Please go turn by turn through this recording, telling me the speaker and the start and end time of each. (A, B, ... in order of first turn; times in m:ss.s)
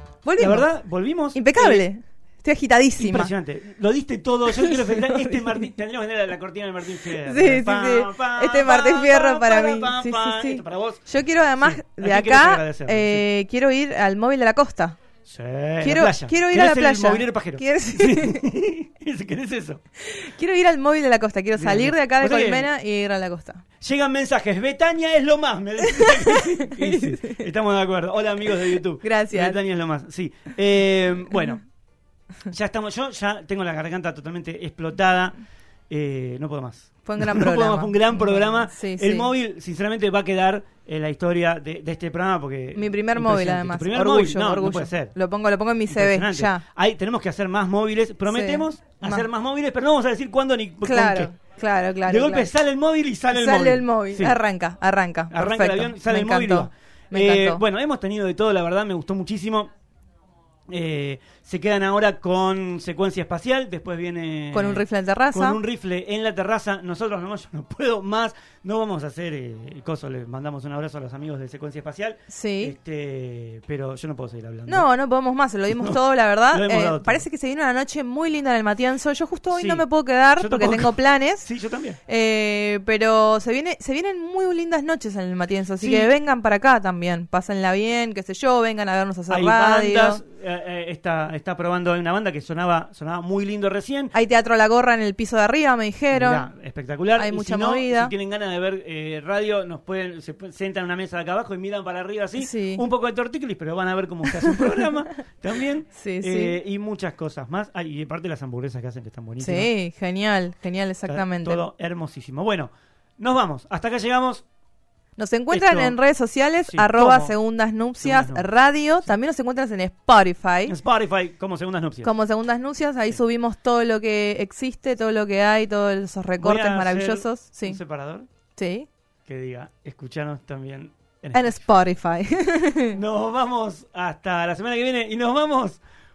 0:00.2-0:00.7 A
0:00.4-0:01.8 B
0:01.3-0:03.3 A
0:03.0-0:11.0 B
0:04.5-0:05.7 A
0:07.2-0:15.0 A
0:11.6-0:13.2 B
0:15.2-0:19.8 B
0:15.8-0:18.4 A
0:20.0-0:23.6 A
0:21.6-0:22.7 B
0:23.8-0:31.6 B
0:25.8-0:27.4 A
0:29.0-0:29.6 A
0:32.4-0:35.4 B
0:35.9-0:45.1 B
0:37.0-0:39.3 A
0:42.7-0:46.6 A
0:45.9-0:51.3 B
0:48.3-0:49.3 A
0:50.8-0:52.5 A
0:52.0-0:54.4 B
0:53.3-0:57.6 A
0:55.3-0:59.7 B
1:00.7-1:14.9 B
1:04.5-1:05.6 A
1:12.3-1:12.7 A
1:14.7-1:21.5 A
1:15.7-1:17.2 B
1:19.5-1:19.8 B
1:20.4-1:22.0 B
1:22.1-1:30.2 A
1:25.8-1:26.1 B
1:29.3-1:34.1 B
1:34.1-1:36.5 A
1:36.1-1:49.7 B
1:37.2-1:38.1 A
1:42.4-1:42.8 A
1:46.0-1:46.6 A
1:49.4-1:51.6 A
1:51.0-1:54.4 B
1:55.2-2:00.8 A
1:55.5-1:56.0 B
1:56.6-1:57.3 B
1:58.0-1:58.5 B
2:00.6-2:02.1 B
2:02.0-2:07.8 A
2:06.4-2:08.3 B
2:08.6-2:08.9 A
2:09.2-2:11.6 B
2:11.3-2:13.0 A
2:12.9-2:15.8 B